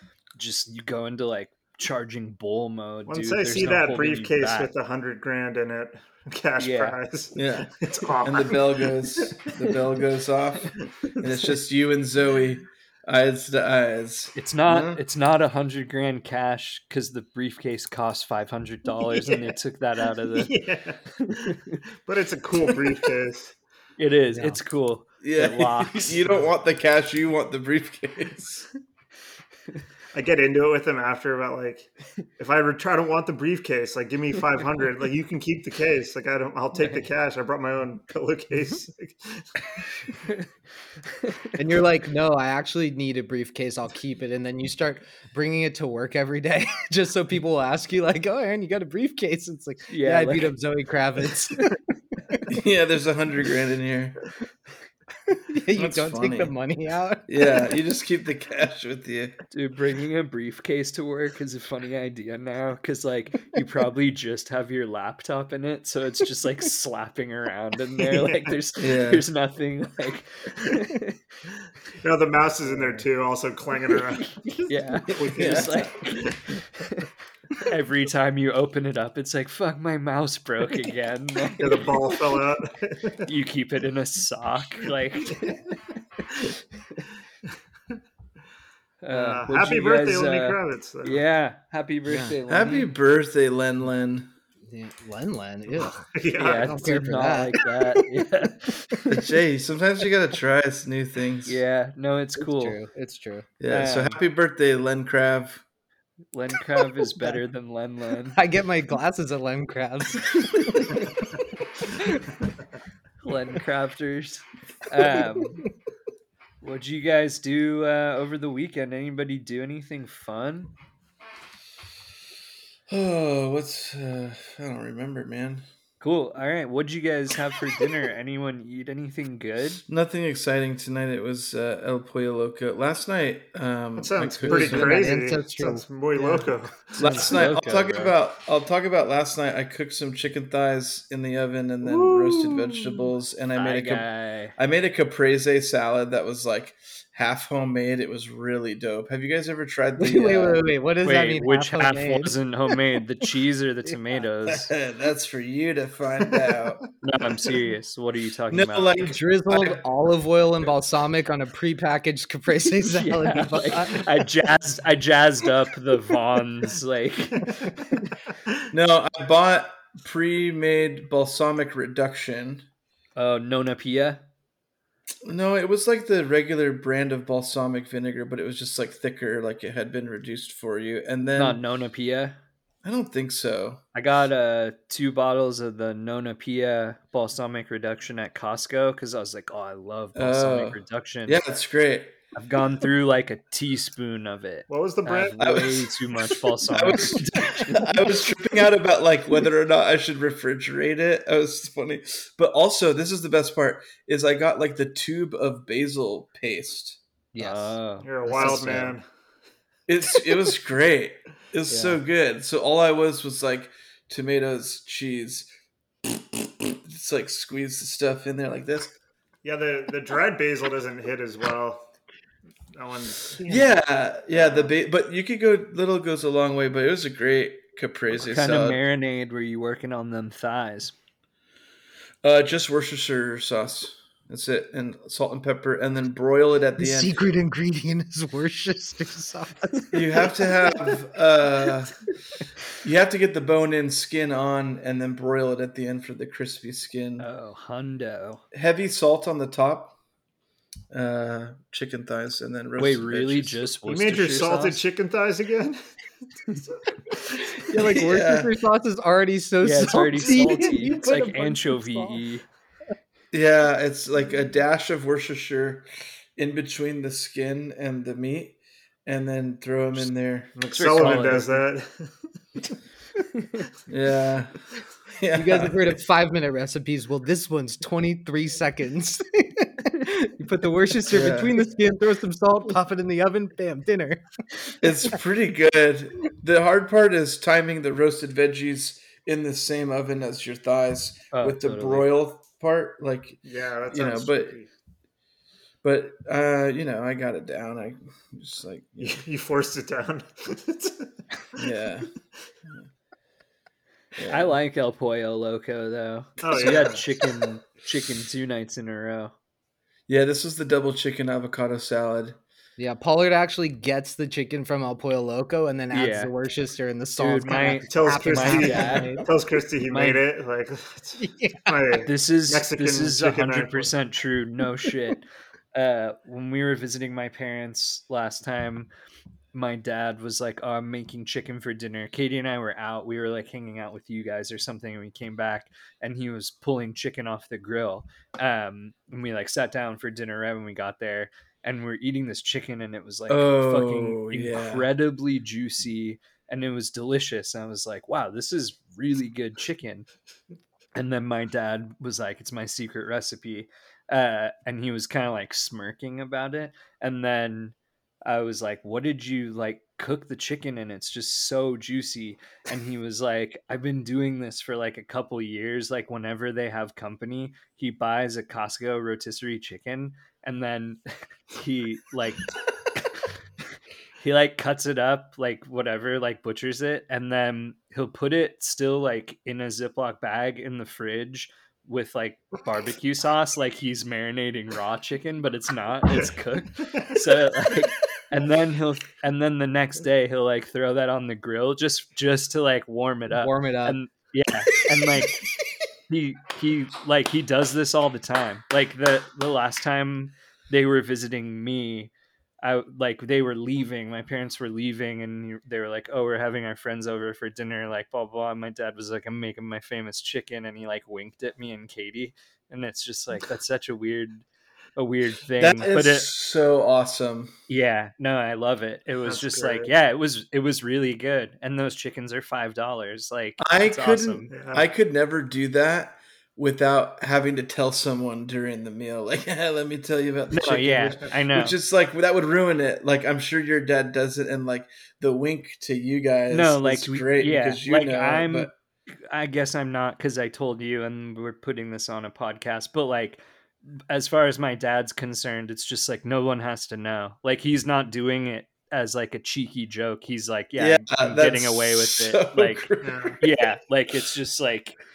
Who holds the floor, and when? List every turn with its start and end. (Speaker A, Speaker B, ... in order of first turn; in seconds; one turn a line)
Speaker A: 0.4-4.7
Speaker B: 3.1-9.3
Speaker A: 6.6-7.0
Speaker C: 7.3-15.0
Speaker A: 14.4-20.6
Speaker B: 20.3-21.5
Speaker A: 21.2-21.8
Speaker B: 22.1-23.6
Speaker A: 24.0-26.4
Speaker D: 24.3-24.6
Speaker C: 25.2-28.7
Speaker B: 30.1-39.5
Speaker A: 41.2-41.5
Speaker D: 41.6-51.7
Speaker A: 49.9-50.5
Speaker C: 52.5-54.2
Speaker D: 55.3-57.4
Speaker C: 55.7-56.5
Speaker C: 57.3-59.4
Speaker A: 59.5-71.2
Speaker C: 68.8-69.3
Speaker B: 72.0-74.4
Speaker A: 74.0-82.4
Speaker B: 75.1-76.5
Speaker C: 75.3-75.7
Speaker B: 81.6-83.3
Speaker A: 83.2-85.8
Speaker A: 86.3-87.0
Speaker A: 89.0-92.9
Speaker B: 89.1-91.2
Speaker D: 92.1-92.3
Speaker C: 92.5-94.3
Speaker D: 94.7-97.7
Speaker B: 96.1-97.0
Speaker A: 96.4-99.3
Speaker C: 99.1-101.6
Speaker A: 101.5-102.8
Speaker D: 102.4-103.5
Speaker C: 103.6-105.6
Speaker A: 103.7-104.2
Speaker A: 106.3-108.4
Speaker D: 108.3-111.0
Speaker A: 113.2-115.7
Speaker A: 116.6-120.7
Speaker C: 122.9-125.7
Speaker A: 126.0-129.8
Speaker C: 129.9-135.0
Speaker B: 134.0-137.2
Speaker D: 134.5-136.5
Speaker C: 137.0-150.7
Speaker A: 137.0-138.2
Speaker A: 143.6-144.5
Speaker D: 150.0-152.4
Speaker A: 151.0-154.7
Speaker C: 154.5-156.8
Speaker A: 157.0-159.1
Speaker C: 158.5-159.8
Speaker D: 159.0-164.1
Speaker A: 162.8-168.1
Speaker C: 168.7-172.7
Speaker A: 173.2-174.2
Speaker C: 175.2-181.6
Speaker A: 181.4-182.4
Speaker C: 182.8-183.8
Speaker A: 183.9-191.4
Speaker C: 190.2-192.2
Speaker A: 192.4-197.9
Speaker B: 194.7-195.5
Speaker C: 195.4-207.0
Speaker D: 207.3-208.9
Speaker A: 207.4-208.6
Speaker B: 208.0-209.1
Speaker C: 209.9-215.5
Speaker D: 211.7-212.0
Speaker C: 216.3-218.9
Speaker B: 219.4-221.9
Speaker B: 222.7-223.7
Speaker C: 223.5-228.8
Speaker A: 228.2-230.9
Speaker C: 232.2-237.2
Speaker D: 236.8-240.3
Speaker C: 239.9-242.0
Speaker C: 242.8-247.3
Speaker A: 247.2-248.4
Speaker C: 248.5-250.0
Speaker C: 250.9-253.6
Speaker A: 252.8-254.8
Speaker B: 253.9-255.9
Speaker D: 257.7-262.2
Speaker C: 257.9-258.5
Speaker A: 259.6-262.5
Speaker C: 263.3-271.5
Speaker B: 270.6-272.3
Speaker A: 270.7-271.6
Speaker C: 273.9-274.6
Speaker C: 275.1-275.9
Speaker D: 275.3-284.2
Speaker C: 281.1-281.6
Speaker C: 284.8-294.6
Speaker A: 291.3-292.1
Speaker B: 293.4-294.7
Speaker C: 295.8-299.2
Speaker B: 299.0-301.1
Speaker C: 301.6-302.1
Speaker C: 304.2-304.6
Speaker A: 304.3-309.3
Speaker B: 306.4-307.0
Speaker C: 306.6-307.0
Speaker C: 310.1-312.4
Speaker D: 312.8-319.3
Speaker A: 315.9-316.3
Speaker A: 317.2-319.3
Speaker B: 317.9-323.9
Speaker A: 319.9-320.2
Speaker D: 321.2-321.7
Speaker A: 322.1-328.9
Speaker A: 329.5-350.1
Speaker C: 343.3-344.9
Speaker A: 350.9-373.2
Speaker A: 374.2-395.5
Speaker B: 386.1-387.2
Speaker D: 393.3-394.0
Speaker A: 396.1-416.3
Speaker C: 415.6-417.5
Speaker A: 417.7-424.5
Speaker B: 419.2-419.9
Speaker C: 423.6-438.7
Speaker B: 424.5-424.9
Speaker A: 430.5-431.8
Speaker A: 436.5-438.7
Speaker A: 439.3-443.4
Speaker A: 444.0-452.9
Speaker C: 450.8-453.4
Speaker B: 453.0-453.4
Speaker A: 453.4-455.0